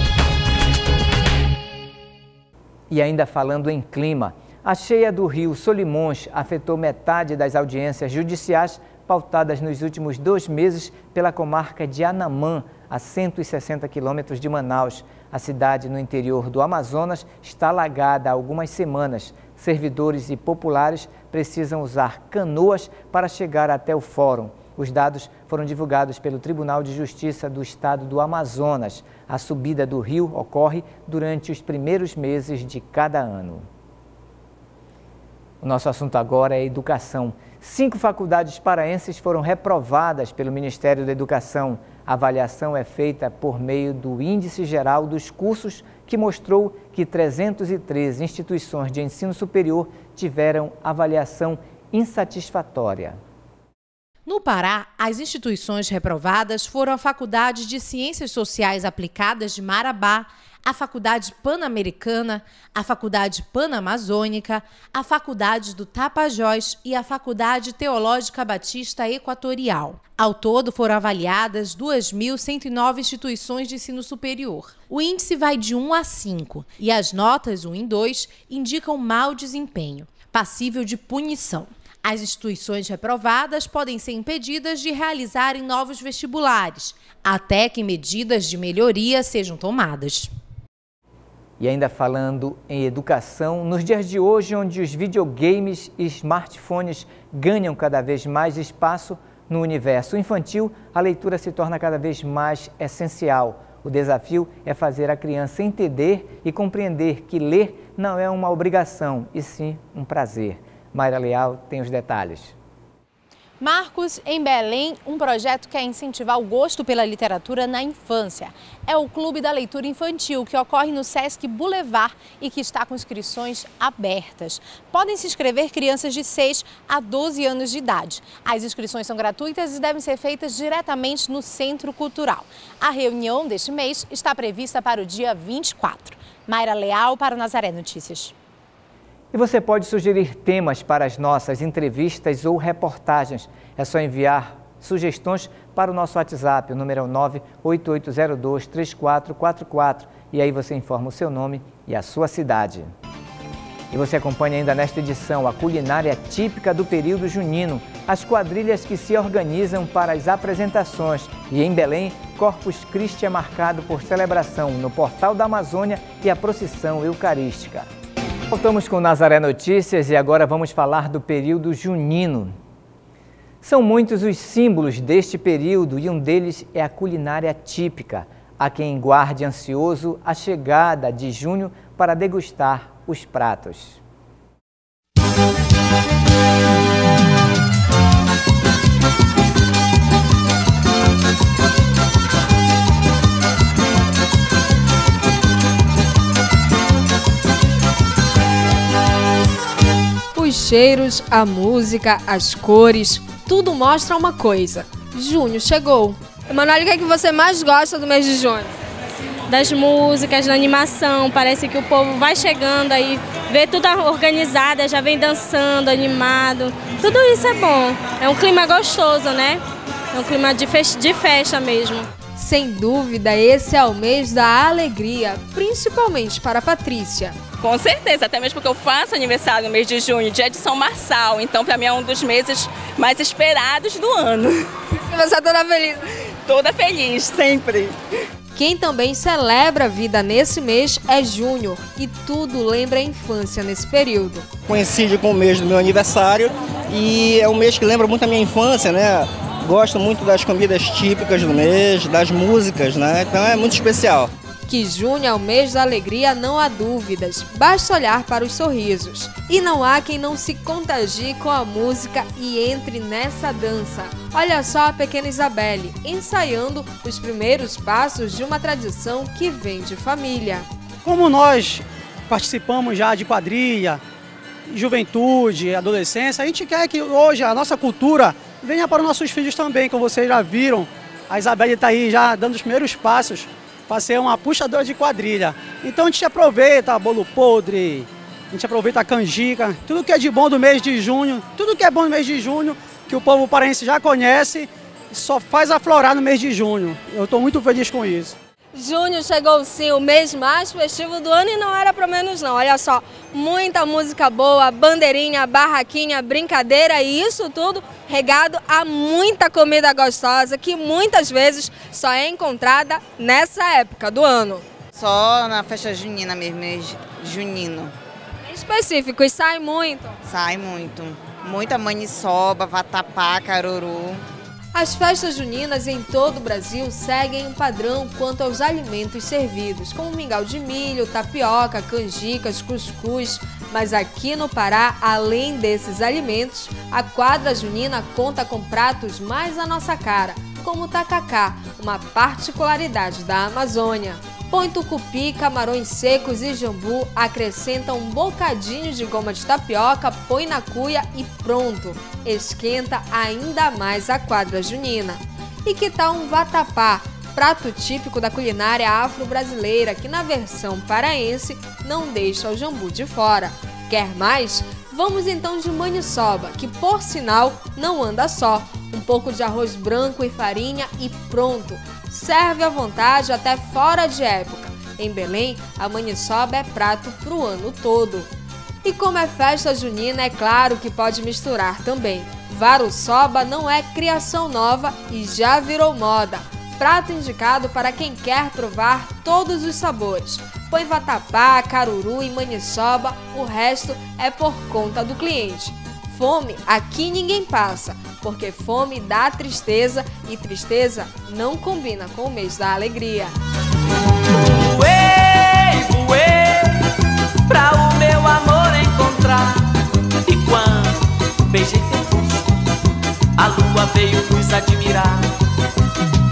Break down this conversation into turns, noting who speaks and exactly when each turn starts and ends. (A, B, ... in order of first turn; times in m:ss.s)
0:02.9-0:33.6 A
0:35.6-0:53.2 A
0:54.2-1:30.3 B
1:31.6-1:52.5 A
1:53.6-2:18.3 B
2:19.3-2:32.9 A
2:33.9-2:47.9 A
2:48.5-2:52.5 A
2:53.6-3:04.0 A
3:20.3-3:28.7 C
3:29.5-3:39.6 D
3:40.1-3:42.1 D
3:42.3-3:47.5 C
3:47.6-3:54.7 E
3:54.9-3:56.0 C
3:56.4-3:57.9 E
3:58.5-4:04.5 C
4:04.7-4:14.3 F
4:14.7-4:30.7 C
4:31.0-4:34.0 G
4:34.7-4:58.3 G
4:58.7-5:14.7 C
5:15.0-5:17.9 H
5:15.0-5:17.9 G
5:18.4-5:20.2 C
5:20.3-5:24.2 H
5:20.3-5:23.5 G
5:24.7-6:18.3 C
6:18.8-6:43.3 C
6:44.5-6:46.8 I
6:47.5-6:49.7 I
6:50.2-6:52.4 I
6:53.4-6:55.3 I